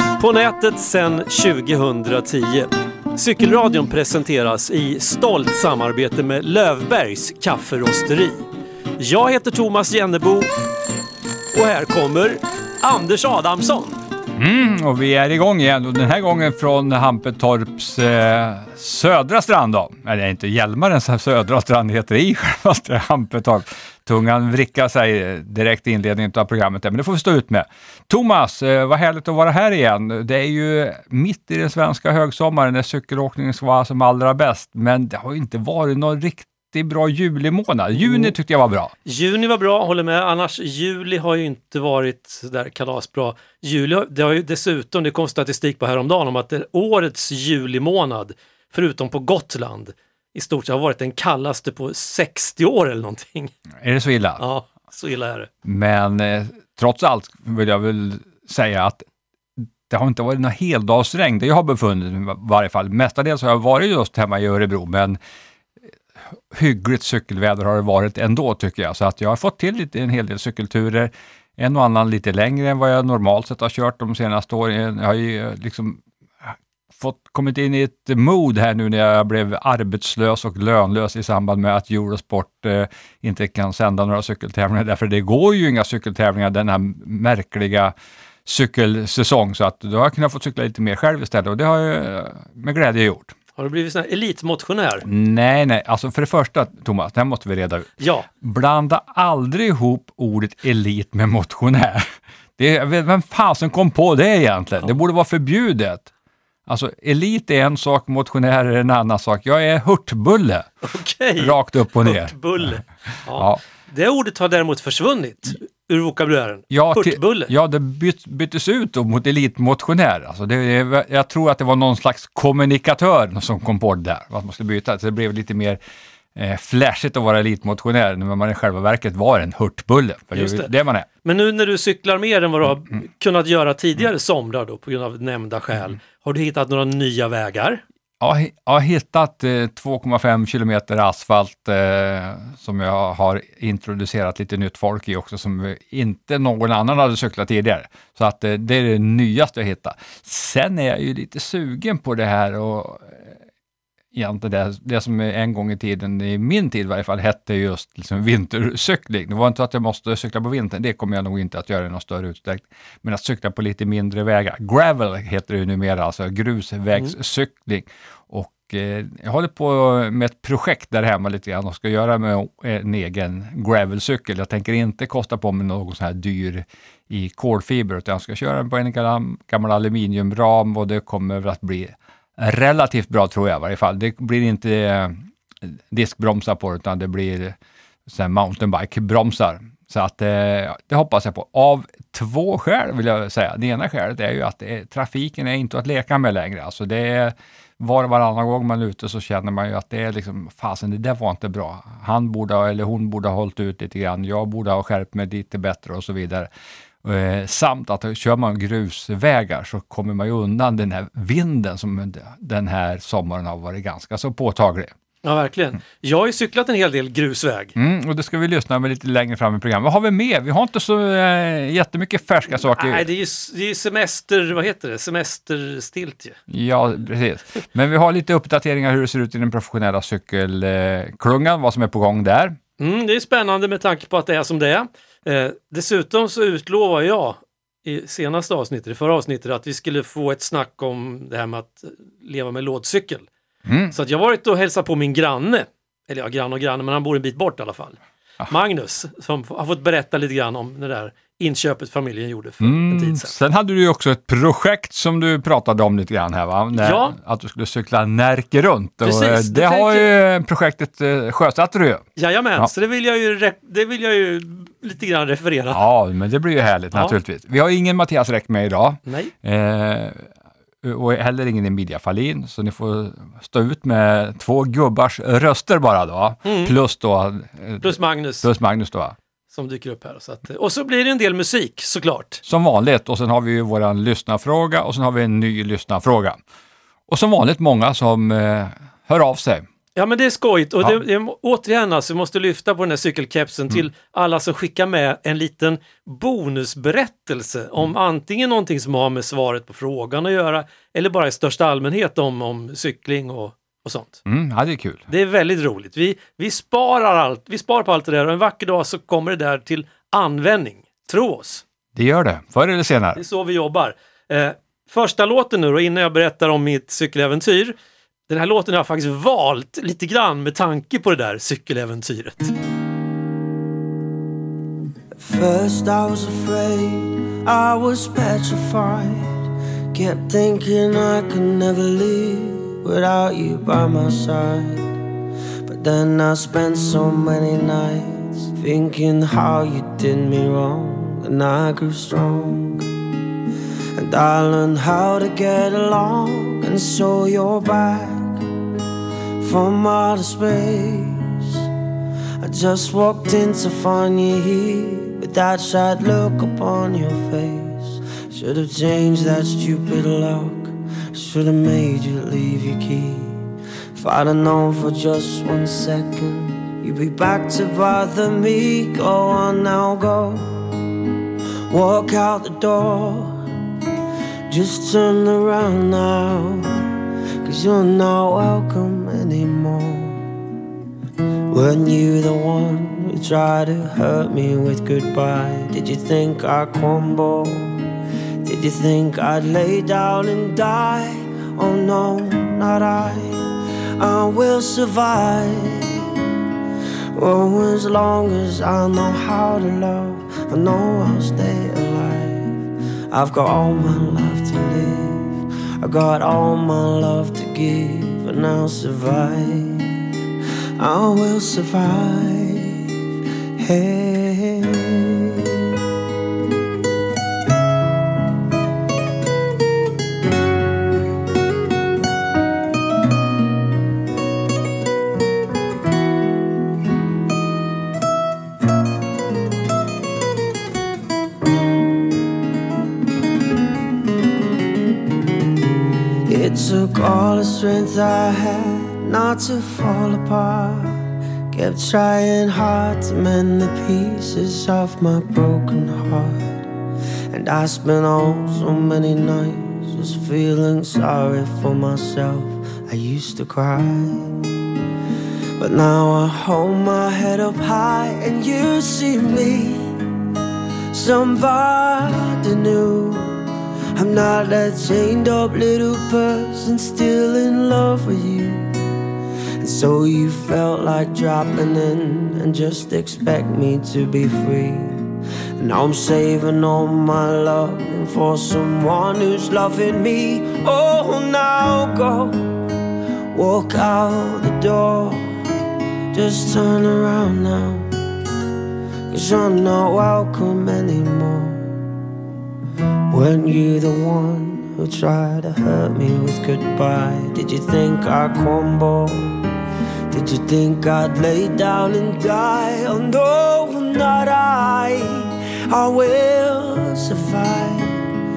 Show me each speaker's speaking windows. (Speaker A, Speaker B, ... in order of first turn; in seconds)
Speaker A: 0.2-8.4, 9.0-10.5, 11.5-14.0, 38.0-38.3, 39.0-53.5, 54.4-55.5, 93.5-95.0, 98.0-98.3, 110.8-117.5, 130.3-137.8, 215.2-217.7, 222.5-226.4, 232.8-243.3, 243.9-253.3, 256.7-257.2, 259.0-260.1, 262.1-265.8, 269.1-269.3, 276.4-276.7, 277.8-278.5, 279.5-282.4, 289.9-304.2, 305.1-311.6, 313.1-317.7, 318.3-322.5
Speaker B: 14.3-38.9, 53.8-54.4, 55.6-59.0, 59.6-65.2, 66.3-87.9, 88.5-93.3, 95.0-102.0, 102.6-106.1, 106.7-110.7, 111.4-112.3, 113.3-113.6, 116.7-125.8, 126.3-131.1, 138.2-153.4, 154.1-187.6, 188.1-206.5, 207.0-214.9, 217.7-223.1, 226.5-232.6, 243.6-243.9, 252.6-262.0, 265.7-270.3, 270.8-279.1, 282.4-286.4, 287.1-289.6, 304.2-305.1, 311.9-313.2
Speaker C: 325.1-329.4, 329.9-334.9, 335.6-342.9, 343.9-348.4, 349.4-351.6, 352.4-363.4, 363.9-370.6, 371.7-373.4, 374.5-376.8, 377.4-380.3, 381.5-387.8, 388.4-393.4, 394.0-396.1, 397.1-402.5, 403.1-409.9, 410.8-412.8, 413.6-415.7, 436.3-446.6, 447.3-454.4, 455.6-459.9, 460.9-463.4, 463.9-468.7, 469.6-475.0, 475.6-482.4, 483.3-485.3, 486.1-487.9, 489.1-491.8, 493.1-499.4, 500.1-508.0